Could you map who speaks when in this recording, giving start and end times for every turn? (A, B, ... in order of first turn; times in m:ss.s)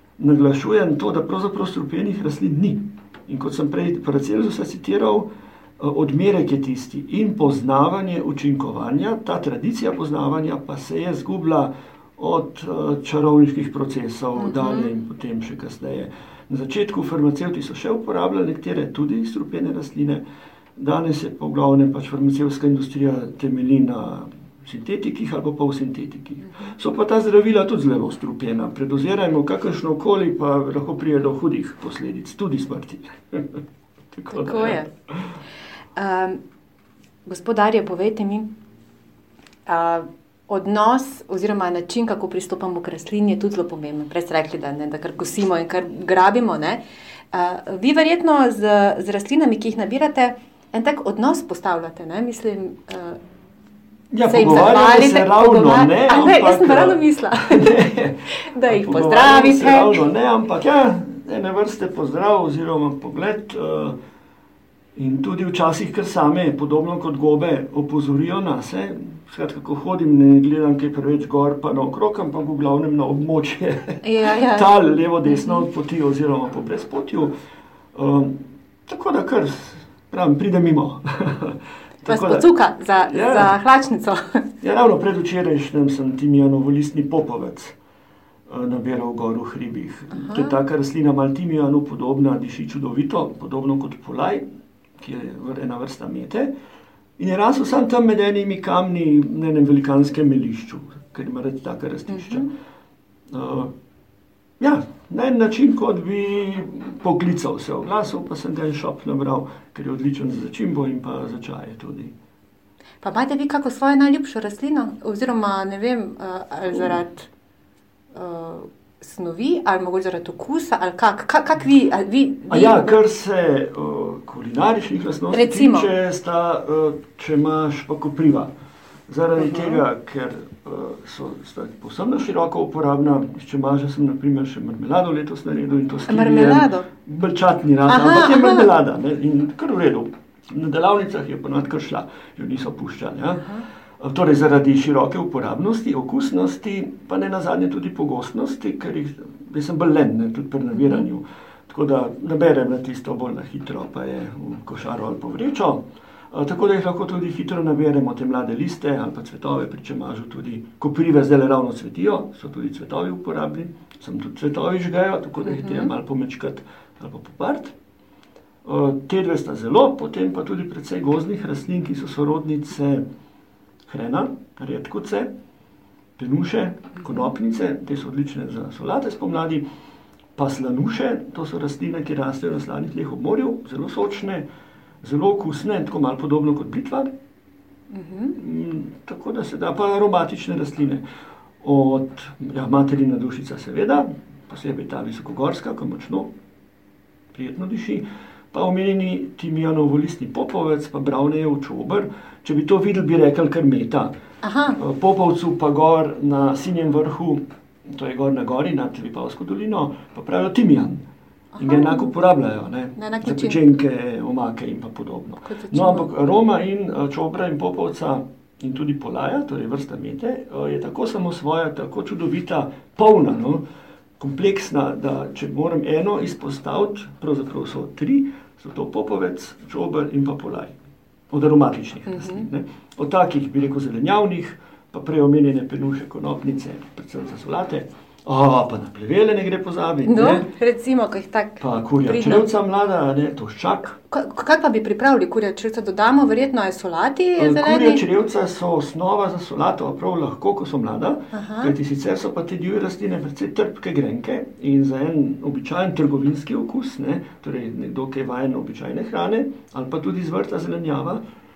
0:00.2-0:20.2 A
0:14.4-0:14.9 B
0:20.8-0:33.6 A
0:26.4-0:26.7 B
0:34.1-0:35.2 A
0:34.3-0:34.9 B
0:36.0-0:36.4 B
0:37.2-0:38.5 B
0:39.7-0:53.2 B
0:54.1-1:04.0 A
0:54.2-1:00.0 B
1:05.0-1:17.3 A
1:14.0-1:14.7 B
1:15.2-1:15.6 B
1:17.9-1:22.5 A
1:22.0-1:24.4 B
1:23.1-1:23.5 A
1:24.6-1:27.8 A
1:28.5-1:34.4 A
1:30.1-1:30.6 B
1:35.0-1:36.5 A
1:37.2-1:42.5 A
1:42.1-1:42.5 B
1:43.3-1:43.7 A
1:44.6-1:52.1 A
1:53.0-1:57.3 B
1:58.1-2:03.0 B
2:02.5-2:08.5 A
2:05.3-2:05.9 B
2:09.1-2:47.8 A
2:09.4-2:09.8 B
2:16.1-2:16.9 B
2:17.9-2:18.7 B
2:30.8-2:31.0 B
2:45.4-2:45.9 B
2:48.6-2:53.0 A
2:53.8-2:55.3 A
2:56.2-2:59.6 A
3:00.4-3:04.5 A
3:05.0-3:07.1 A
3:07.9-3:08.4 B
3:08.3-3:11.0 A
3:11.6-3:16.3 A
3:17.3-3:24.1 A
3:24.4-3:24.8 B
3:24.8-3:31.0 A
3:31.6-3:32.1 B
3:31.6-3:43.6 A
3:33.0-3:33.6 B
3:35.5-3:36.1 B
3:44.2-3:50.8 A
3:51.3-4:00.5 A
3:52.1-3:52.4 B
4:00.0-4:02.5 B
4:01.6-4:04.0 A
4:04.1-4:08.0 B
4:07.4-4:21.2 A
4:11.3-4:11.8 B